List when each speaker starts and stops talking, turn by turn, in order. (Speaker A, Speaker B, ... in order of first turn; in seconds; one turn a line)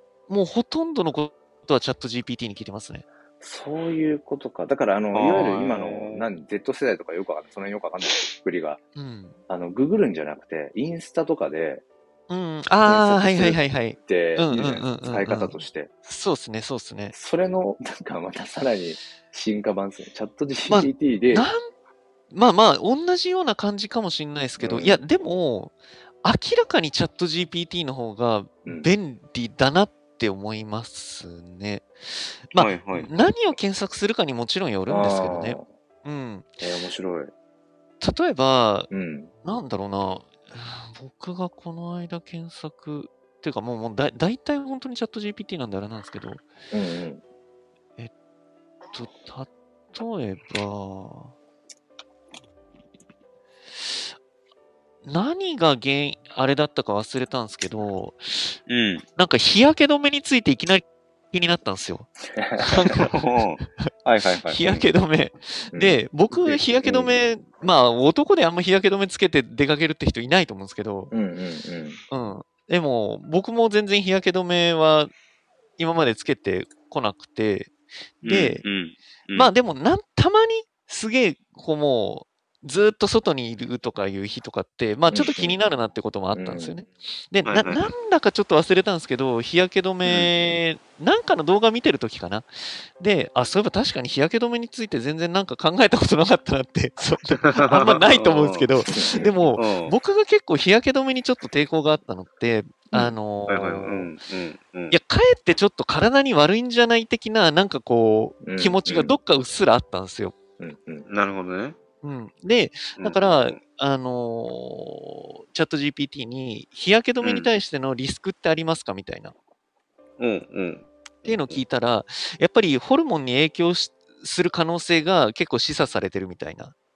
Speaker A: 0.3-3.0
Speaker B: 3.4-8.8
Speaker C: 5.1-6.3
Speaker A: 8.9-9.4
Speaker B: 9.5-11.8
Speaker A: 12.3-17.1
Speaker B: 12.8-15.9
Speaker B: 17.1-21.5
Speaker A: 20.7-21.7
Speaker A: 22.3-36.6
Speaker B: 24.6-25.0
Speaker B: 28.6-28.9
Speaker C: 32.5-33.1
Speaker B: 34.9-35.6
Speaker B: 36.6-37.3
Speaker A: 38.0-38.9
Speaker B: 38.9-39.3
Speaker A: 39.4-46.4
Speaker B: 46.7-47.2
Speaker A: 48.9-51.3
Speaker A: 55.0-58.6
Speaker C: 58.7-59.0
Speaker A: 59.2-63.1
Speaker B: 62.3-62.9
Speaker C: 62.9-64.9
Speaker A: 64.5-71.1
Speaker B: 65.7-67.2
Speaker B: 71.1-72.0
Speaker A: 72.1-75.1
Speaker A: 75.8-78.6
Speaker C: 78.2-79.5
Speaker A: 79.3-104.1
Speaker B: 85.1-85.6
Speaker B: 86.3-86.8
Speaker C: 87.5-87.9
Speaker C: 90.0-90.3
Speaker C: 97.4-98.7
Speaker B: 98.9-99.3
Speaker C: 99.5-99.9
Speaker C: 103.0-105.0
Speaker A: 104.9-110.3
Speaker B: 108.4-109.2
Speaker B: 110.6-111.0
Speaker C: 111.1-111.8
Speaker A: 112.0-119.3
Speaker C: 113.0-113.6
Speaker C: 117.2-117.5
Speaker C: 120.2-121.6
Speaker A: 121.2-126.7